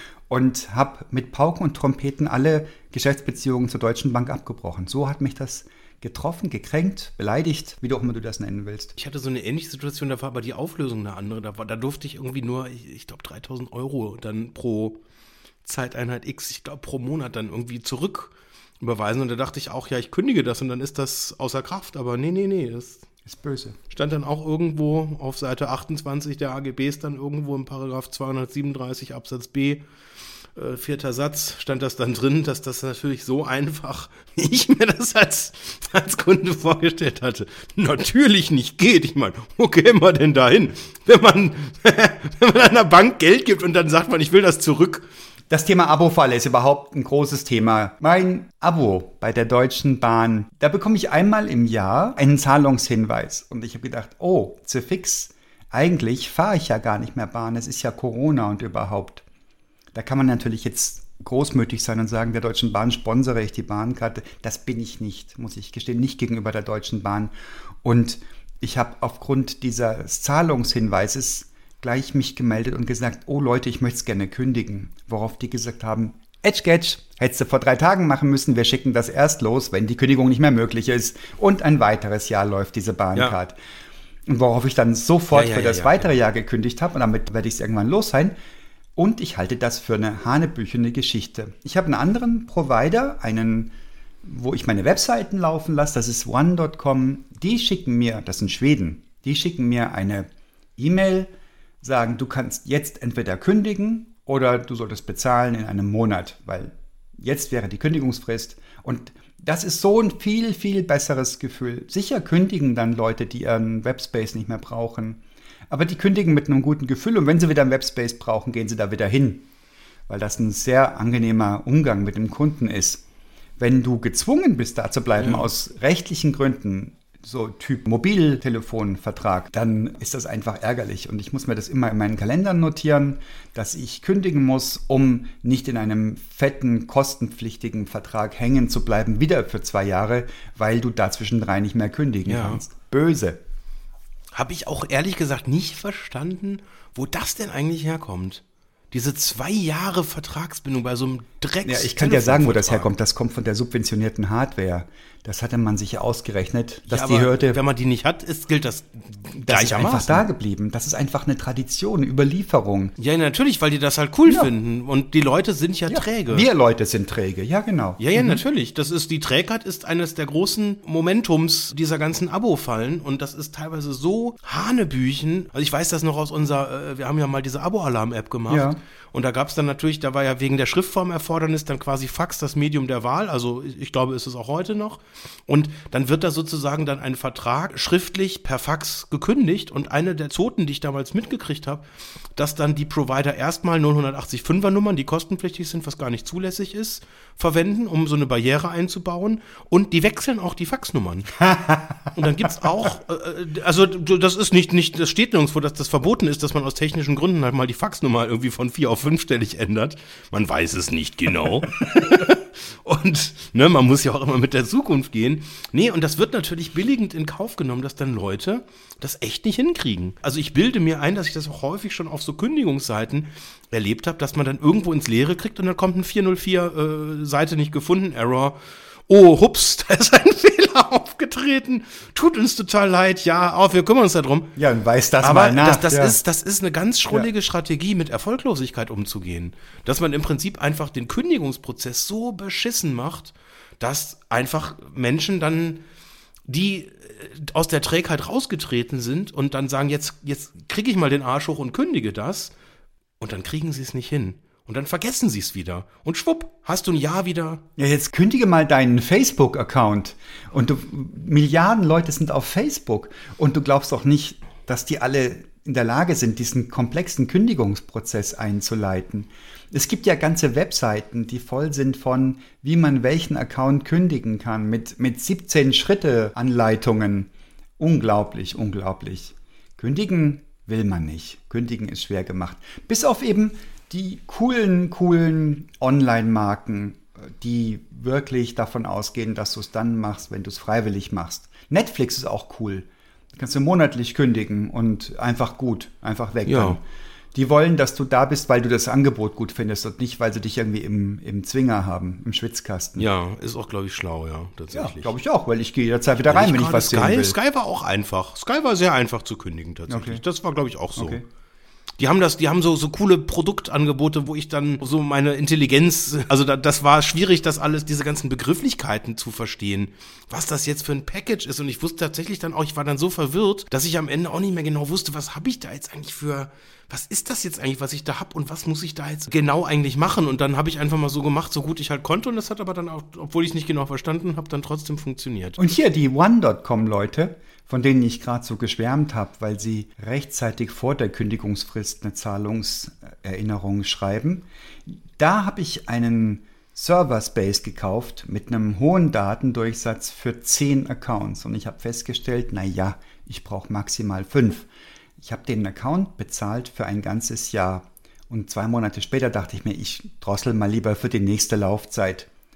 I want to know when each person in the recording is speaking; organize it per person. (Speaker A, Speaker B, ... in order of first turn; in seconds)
Speaker A: 0.3-8.9, 23.3-23.8, 45.5-59.2, 59.9-67.3, 67.8-83.6, 84.3-88.4, 89.0-93.7, 94.2-101.3, 101.8-119.5, 120.1-123.0, 123.6-143.4, 151.7-157.6, 159.4-162.9, 165.9-168.4, 178.5-178.8, 201.4-202.1, 234.6-236.2, 257.8-296.8, 297.3-303.1, 304.7-307.4, 309.9-310.2, 311.0-311.3, 335.6-354.7, 355.2-362.3
Speaker B: 9.0-15.0, 15.7-23.1, 23.9-29.8, 30.6-45.1, 85.3-86.2, 125.2-125.5, 142.3-142.6, 144.3-152.9, 156.9-160.3, 163.0-166.5, 168.0-201.3, 202.2-234.5, 235.2-245.8, 246.5-252.5, 253.2-257.6, 296.4-296.8, 303.0-305.1, 306.3-311.2, 312.0-335.6